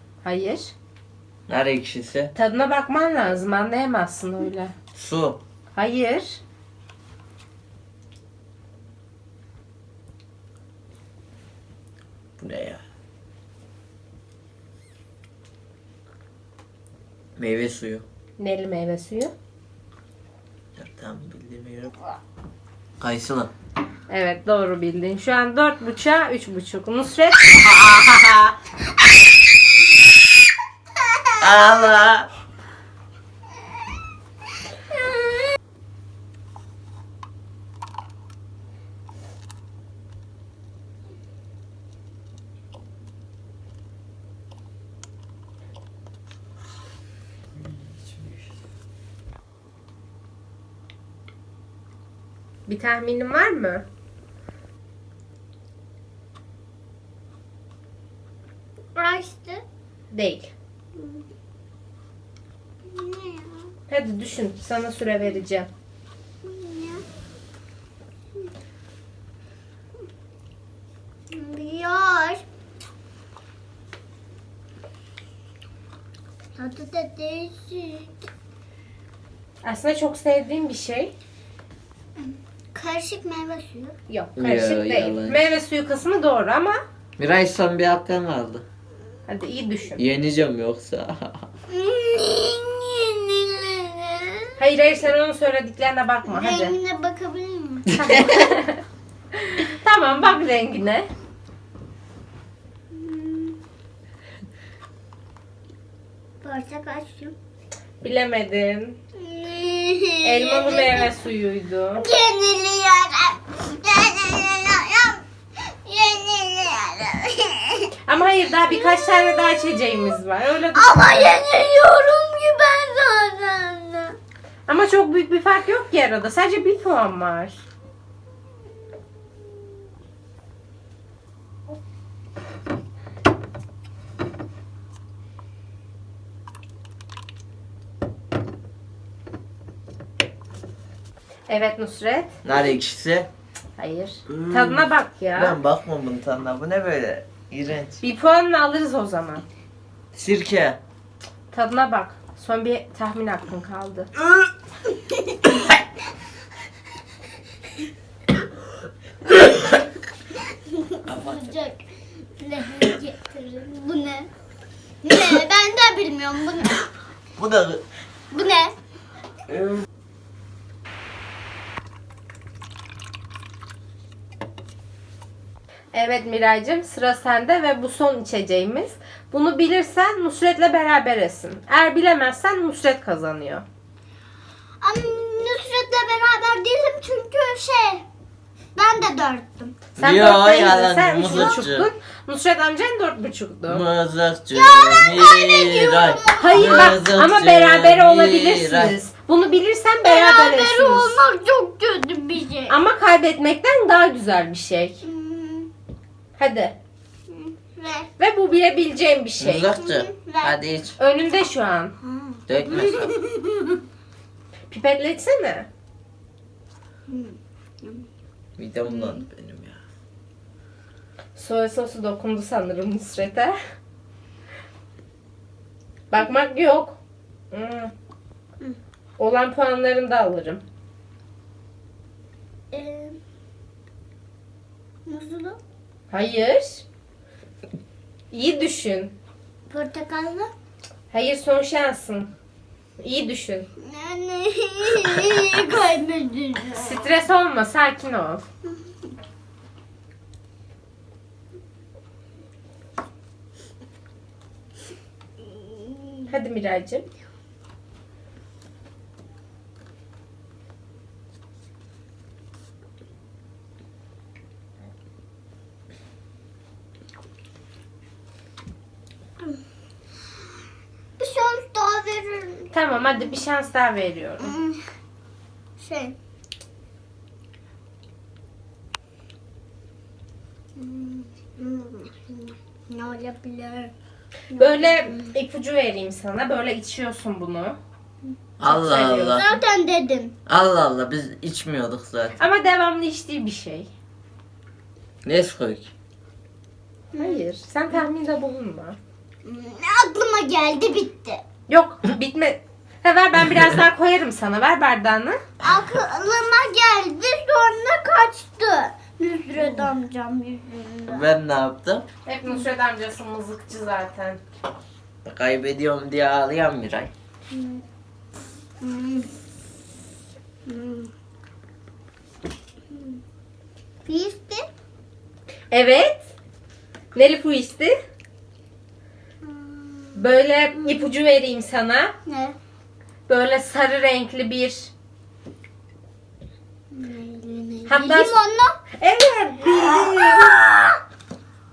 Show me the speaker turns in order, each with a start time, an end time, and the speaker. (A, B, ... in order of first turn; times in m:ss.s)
0:00.2-0:00.7 A
0:01.5-0:02.3 B
0:02.4-0:04.7 A
0:05.0-0:05.4 B
0:05.8-0:06.4 A
0:12.4-0:12.8 B
0:17.4-0:18.0 B
0:18.4-0:19.3 A
0:20.8-0:22.0 B
0:23.0-0:23.5 B
0:24.1-0:27.4 A
0:27.5-0:28.5 B
0:31.4-0:32.3 B
0:52.7-0:53.8 A
0:59.0-0:59.6 C
1:00.1-1:00.5 A
1:01.0-1:01.2 C
1:02.9-1:03.7 C
1:03.9-1:05.7 A
1:06.4-1:07.0 C
1:11.3-1:12.4 C
1:16.6-1:18.1 C
1:19.6-1:21.1 A
1:22.3-1:24.0 C
1:24.1-1:26.8 A
1:24.4-1:25.4 B
1:27.2-1:28.6 B
1:29.3-1:30.0 A
1:30.0-1:31.4 B
1:31.7-1:34.6 C
1:34.6-1:36.7 A
1:36.3-1:38.1 C
1:38.0-1:38.8 A
1:39.5-1:41.1 A
1:42.9-1:43.6 C
1:46.4-1:47.4 C
1:48.0-1:49.0 A
1:49.2-1:51.1 C
1:50.2-1:52.0 A
1:52.0-1:55.2 C
1:55.8-1:57.9 C
1:58.1-2:01.3 A
1:58.7-2:00.0 C
2:00.8-2:04.2 C
2:04.7-2:07.6 A
2:21.5-2:22.3 A
2:22.4-2:23.3 B
2:23.8-2:25.6 A
2:24.3-2:28.0 B
2:28.0-2:29.4 A
2:30.1-2:30.8 B
2:31.5-2:34.1 A
2:40.9-2:41.8 C
2:41.1-2:41.4 B
2:42.4-2:44.3 C
2:45.0-2:46.8 C
2:47.4-2:47.8 B
2:48.3-2:48.7 C
2:49.5-2:49.8 B
2:55.9-3:03.6 A
3:04.8-3:08.0 C
3:08.8-3:09.8 C
3:10.0-3:11.9 B
3:10.0-3:13.8 A
3:13.7-3:19.0 B
3:14.5-3:17.0 C
3:16.4-3:21.2 A
3:20.0-3:22.8 C
3:22.7-3:25.0 A
3:25.0-3:25.7 C
3:26.4-3:26.7 A
3:27.3-3:28.1 C
3:28.2-3:29.7 A
3:29.4-3:31.0 B
3:29.8-3:30.6 C
3:31.0-3:31.9 A
3:32.0-3:33.8 C
3:32.5-3:33.1 B
3:34.7-3:35.7 A
3:37.1-3:38.0 C
3:38.6-3:39.8 B
3:38.9-3:39.2 C
3:41.4-3:43.6 A
3:46.1-3:47.0 A
3:47.5-3:47.9 A
3:49.2-3:50.6 A
3:52.7-3:53.2 C
3:55.1-3:55.6 C
3:56.1-3:56.8 A
3:58.3-3:59.1 A
3:59.7-4:00.5 C
4:01.1-4:02.3 A
4:03.0-4:03.7 A
4:03.8-4:07.0 C
4:06.8-4:08.4 A
4:16.3-4:17.1 A
4:31.2-4:33.1 C
4:32.7-4:34.6 A
4:34.4-4:34.8 C
4:35.8-4:36.2 C
4:40.8-4:43.9 C
4:44.5-4:45.3 C
4:44.6-4:47.8 A
4:48.6-4:49.5 B
4:48.6-4:49.4 A
4:49.3-4:50.4 C
4:50.5-4:52.4 B
4:52.4-4:53.9 A
4:55.2-4:55.9 B
4:57.1-4:57.4 C
4:57.2-4:59.0 A
4:59.4-5:01.4 C
5:01.7-5:05.4 A
5:05.6-5:11.3 C
5:11.1-5:12.1 B
5:12.3-5:14.4 A
5:15.2-5:17.1 B
5:17.5-5:17.8 C
5:18.8-5:19.3 C
5:20.7-5:21.1 C
5:24.1-5:24.7 C
5:25.7-5:26.3 A
5:27.2-5:27.9 A
5:29.4-5:30.3 C
5:30.2-5:32.1 A
5:32.3-5:32.6 C
5:33.3-5:34.9 A
5:36.9-5:38.8 C
5:37.9-5:38.4 A
5:39.0-5:40.6 A
5:39.7-5:41.0 C